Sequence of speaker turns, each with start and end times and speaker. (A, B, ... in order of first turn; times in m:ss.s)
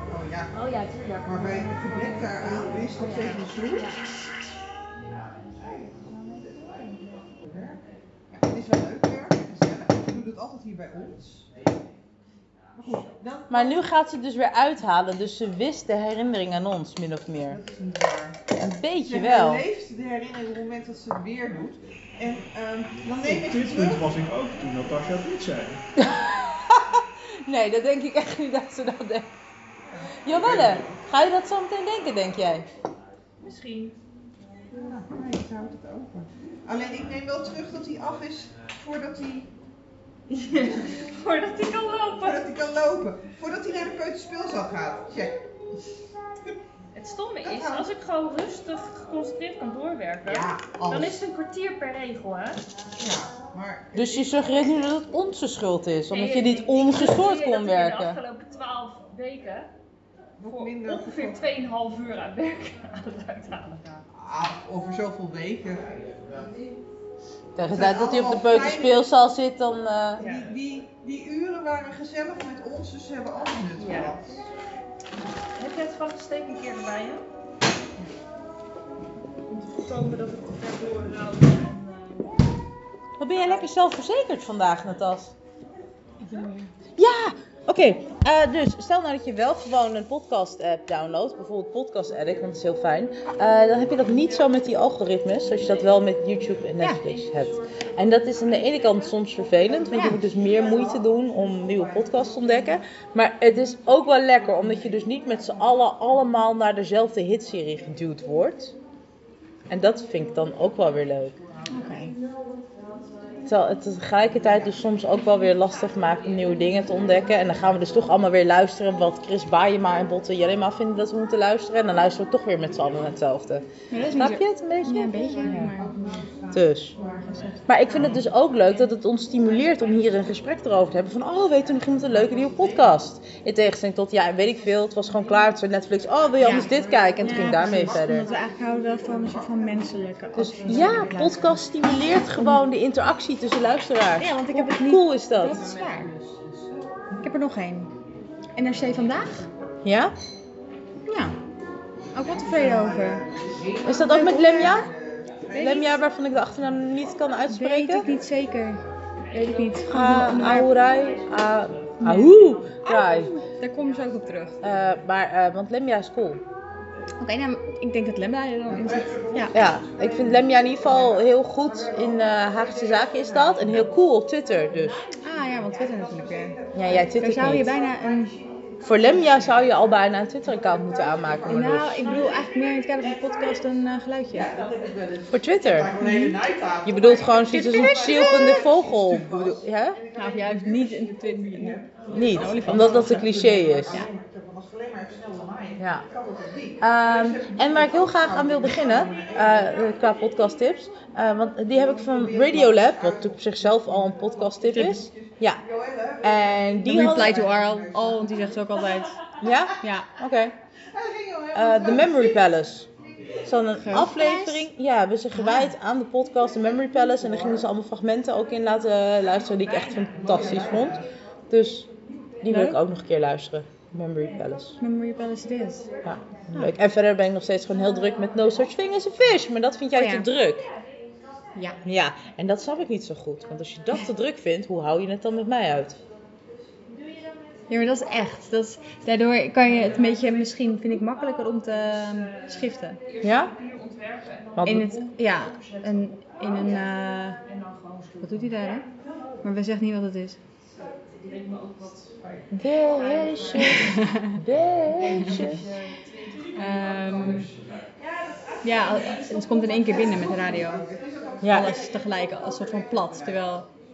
0:00.1-0:00.5 A
0:01.3-0:03.9 A
0:02.5-0:03.9 B
0:07.5-0:07.8 A
0:08.3-0:11.5 A
0:12.8-0:13.7 A
0:13.5-0:17.6 C
0:17.6-0:18.4 A
0:18.6-0:19.7 C
0:19.1-0:24.1 A
0:23.1-0:25.8 D
0:26.0-0:29.3 C
0:30.2-0:32.7 C
0:30.3-0:30.9 D
0:33.5-0:33.9 E
0:34.8-0:39.5 A
0:40.6-0:41.7 B
0:40.9-0:42.3 E
0:42.1-0:45.4 A
0:46.9-0:52.6 E
0:47.4-0:47.9 A
0:50.3-0:51.2 A
0:53.0-0:53.9 A
0:53.9-0:58.2 C
0:56.2-0:59.7 E
0:56.2-0:57.2 B
1:00.4-1:01.4 A
1:00.6-1:04.0 E
1:04.1-1:05.8 A
1:07.6-1:10.2 C
1:07.7-1:08.9 A
1:10.2-1:14.4 A
1:13.8-1:14.1 E
1:15.6-1:17.2 E
1:19.6-1:22.3 E
1:23.2-1:25.4 C
1:26.2-1:26.7 B
1:27.0-1:48.8 C
1:39.9-1:40.2 B
1:49.7-1:51.4 C
1:51.7-1:52.2 B
1:53.5-2:05.7 C
2:03.9-2:06.3 B
2:06.5-2:06.9 C
2:07.1-2:07.5 B
2:07.7-2:18.3 C
2:16.4-2:21.6 B
2:20.4-2:25.6 C
2:24.2-2:26.1 B
2:27.2-2:27.9 B
2:28.6-2:29.5 B
2:29.8-2:30.2 C
2:31.1-2:31.4 B
2:32.1-2:33.2 B
2:32.5-2:35.4 A
2:33.8-2:34.9 C
2:33.9-2:34.8 B
2:35.5-2:35.9 B
2:35.5-2:38.1 C
2:37.5-2:40.7 B
2:39.9-2:43.3 C
2:42.0-2:42.3 B
2:42.8-2:44.6 B
2:44.6-2:46.4 C
2:47.2-2:49.6 B
2:49.5-2:55.0 C
2:55.2-2:56.6 B
2:56.7-2:57.7 C
2:57.2-2:58.3 B
2:58.8-3:02.1 C
3:01.5-3:04.5 B
3:04.5-3:09.5 A
3:05.3-3:05.9 C
3:06.0-3:06.4 B
3:06.8-3:10.0 C
3:07.4-3:08.7 B
3:10.2-3:13.3 B
3:12.1-3:14.0 C
3:12.5-3:16.8 A
3:15.8-3:16.1 C
3:16.8-3:25.6 C
3:18.5-3:19.3 A
3:22.5-3:22.9 A
3:24.7-3:25.1 B
3:25.8-3:26.2 A
3:26.2-3:27.4 C
3:26.8-3:29.2 B
3:27.5-3:27.8 A
3:29.4-3:30.6 C
3:29.8-3:30.1 B
3:31.0-3:32.2 A
3:31.5-3:32.9 C
3:33.4-3:41.9 C
3:33.8-3:34.7 B
3:35.4-3:35.7 B
3:42.4-3:44.8 C
3:42.5-3:42.8 B
3:44.8-3:45.9 B
3:46.0-3:50.7 C
3:50.0-3:50.3 B
3:51.8-3:56.0 C
3:57.7-4:03.0 B
4:03.2-4:03.5 C
4:04.6-4:04.9 C
4:04.6-4:07.4 B
4:08.2-4:08.8 B
4:09.4-4:10.4 B
4:12.5-4:15.6 C
4:13.6-4:14.4 B
4:15.1-4:15.6 B
4:16.6-4:17.5 B
4:18.6-4:20.9 B
4:21.4-4:21.8 C
4:21.4-4:23.7 B